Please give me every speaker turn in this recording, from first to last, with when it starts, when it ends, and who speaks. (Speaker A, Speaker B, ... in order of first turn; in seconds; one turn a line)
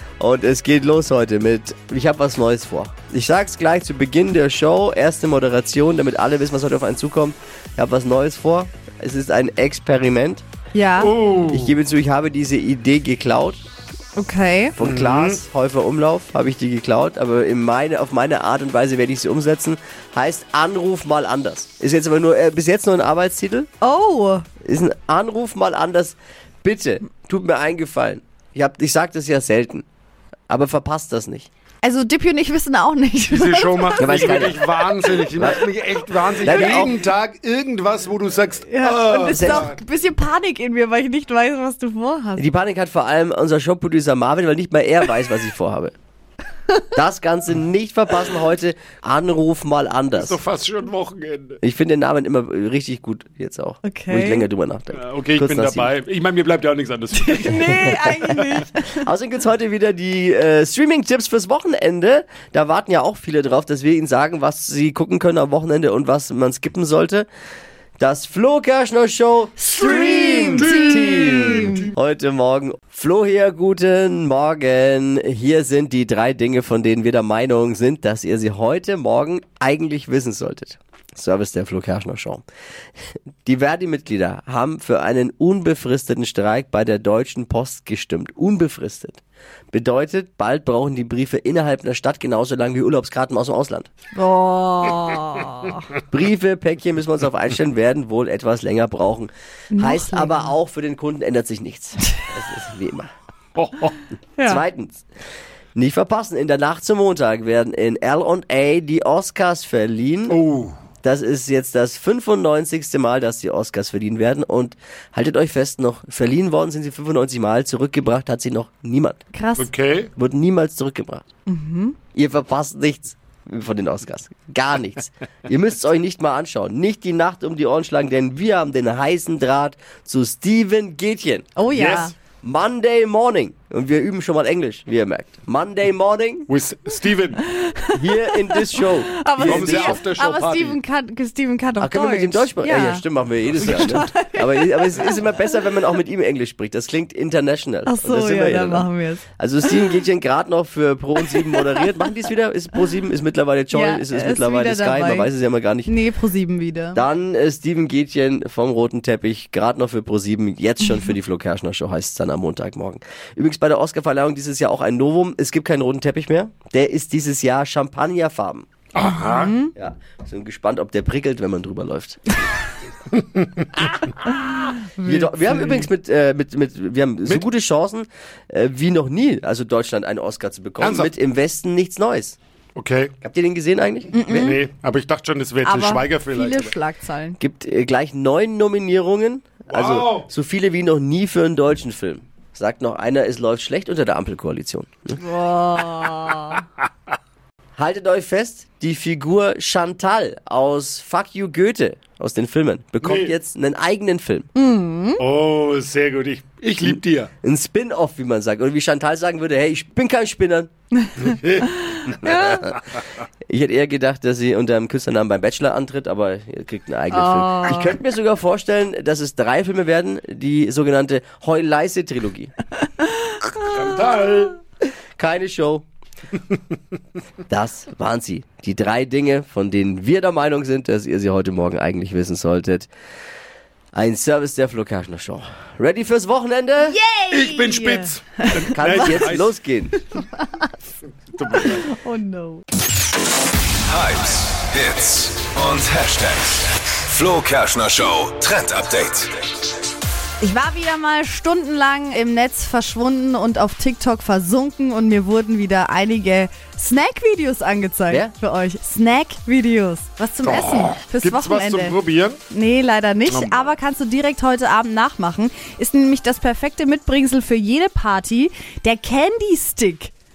Speaker A: 0.2-10.4
Speaker B: 10.7-11.1
Speaker C: 11.0-11.7
Speaker A: 11.5-13.6
Speaker B: 14.2-14.7
Speaker A: 14.8-23.7
Speaker C: 14.8-15.4
Speaker B: 23.8-24.4
Speaker A: 24.6-29.8
Speaker A: 30.5-31.5
Speaker B: 31.8-34.6
Speaker C: 33.3-39.8
Speaker A: 34.0-34.6
Speaker A: 36.4-37.0
Speaker B: 38.7-42.5
Speaker A: 39.3-39.7
Speaker A: 42.4-45.9
Speaker A: 46.9-50.4
Speaker C: 50.1-51.6
Speaker A: 51.6-55.9
Speaker B: 53.8-54.5
Speaker C: 54.9-58.6
Speaker B: 57.1-59.0
Speaker A: 59.0-67.3
Speaker A: 68.0-82.4
Speaker B: 69.7-71.9
Speaker A: 83.4-89.2
Speaker A: 89.7-93.9
Speaker B: 94.1-95.8
Speaker A: 96.1-103.1
Speaker B: 99.7-100.5
Speaker C: 103.5-104.0
Speaker B: 104.4-104.6
Speaker A: 104.5-105.0
Speaker A: 105.8-110.4
Speaker C: 110.3-110.7
Speaker A: 111.0-119.2
Speaker B: 119.3-119.7
Speaker C: 119.6-120.1
Speaker A: 120.2-121.2
Speaker B: 121.5-122.0
Speaker A: 122.1-131.4
Speaker B: 131.6-132.1
Speaker C: 131.7-132.1
Speaker A: 132.4-136.5
Speaker C: 136.5-137.4
Speaker B: 137.6-143.0
Speaker A: 137.9-140.0
Speaker C: 139.4-140.8
Speaker A: 141.8-155.9
Speaker C: 143.5-144.1
Speaker B: 143.6-145.2
Speaker B: 147.8-149.8
Speaker B: 151.3-151.7
Speaker B: 153.7-155.3
Speaker B: 155.8-157.0
Speaker A: 156.9-168.7
Speaker C: 168.9-169.5
Speaker B: 169.1-169.7
Speaker A: 169.7-172.3
Speaker C: 173.4-173.7
Speaker B: 175.0-175.8
Speaker A: 175.0-182.4
Speaker C: 180.8-181.1
Speaker C: 182.8-183.1
Speaker A: 183.2-184.5
Speaker B: 184.1-184.6
Speaker C: 184.3-186.7
Speaker B: 185.6-187.4
Speaker A: 187.4-195.1
Speaker C: 189.7-190.2
Speaker B: 195.2-196.6
Speaker A: 197.8-204.5
Speaker C: 203.0-203.3
Speaker B: 204.5-205.2
Speaker C: 205.2-207.3
Speaker A: 206.8-210.7
Speaker C: 211.3-211.8
Speaker B: 212.2-212.6
Speaker A: 213.5-222.5
Speaker B: 217.1-217.9
Speaker C: 223.6-224.6
Speaker A: 225.2-225.8
Speaker A: 227.5-232.9
Speaker A: 233.9-237.0
Speaker B: 236.8-239.2
Speaker C: 237.3-239.5
Speaker A: 238.7-239.9
Speaker B: 240.2-240.5
Speaker C: 241.3-241.8
Speaker B: 241.5-242.6
Speaker D: 243.9-249.4
Speaker B: 250.4-262.0
Speaker C: 260.4-262.4
Speaker B: 262.5-270.1
Speaker C: 263.3-263.7